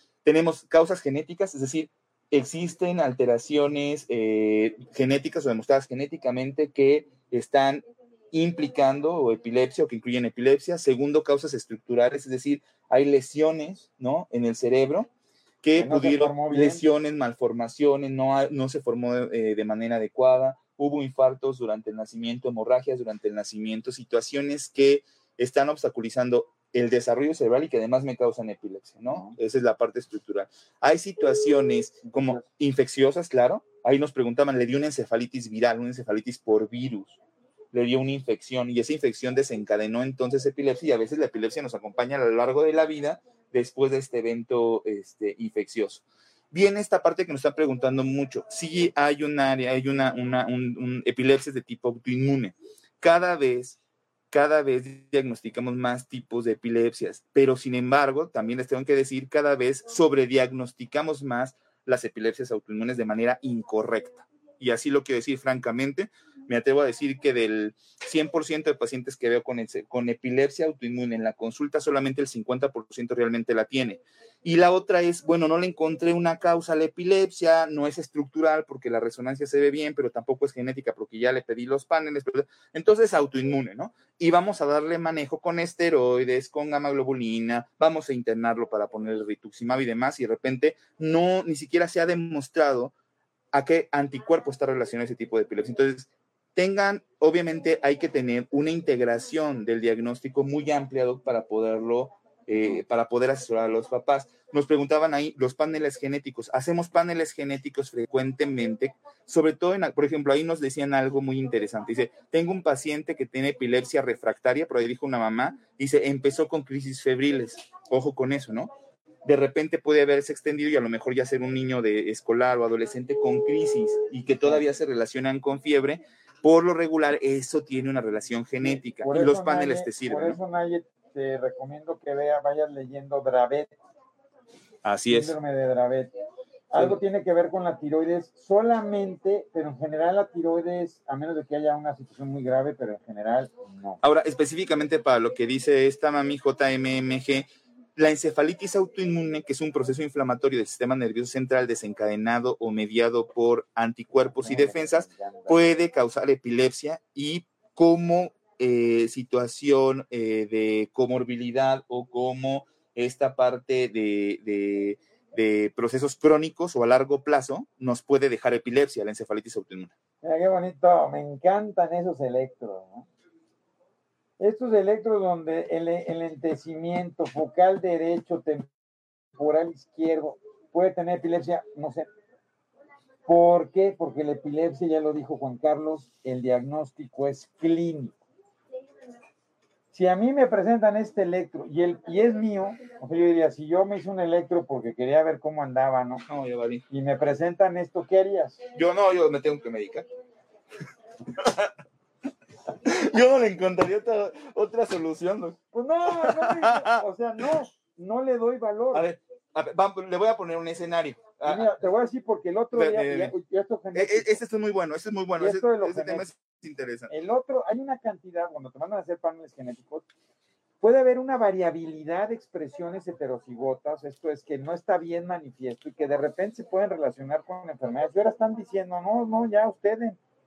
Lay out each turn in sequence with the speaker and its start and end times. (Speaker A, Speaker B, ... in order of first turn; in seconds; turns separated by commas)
Speaker A: 0.2-15.1, Speaker A: 15.6-37.2, Speaker B: 15.8-16.8, Speaker B: 29.1-29.4, Speaker B: 32.1-32.4, Speaker A: 37.7-53.8, Speaker A: 54.3-92.9, Speaker A: 93.5-118.7, Speaker A: 119.2-130.4, Speaker B: 128.6-133.7, Speaker A: 134.8-135.3, Speaker B: 135.1-136.1, Speaker B: 136.7-144.0, Speaker A: 136.7-137.0, Speaker A: 144.0-169.9, Speaker B: 154.2-155.6, Speaker B: 170.2-173.1, Speaker B: 174.4-178.7, Speaker B: 179.3-182.1, Speaker B: 183.2-188.2, Speaker B: 189.9-196.2, Speaker A: 196.3-196.8, Speaker B: 196.9-198.6, Speaker A: 198.7-200.1, Speaker A: 201.3-201.7, Speaker A: 202.8-205.6, Speaker B: 205.7-209.1, Speaker A: 206.1-207.0, Speaker A: 208.9-211.7, Speaker B: 211.4-214.4, Speaker A: 212.7-213.3, Speaker A: 213.9-217.1, Speaker B: 215.4-216.3, Speaker B: 217.1-220.0, Speaker B: 220.8-230.2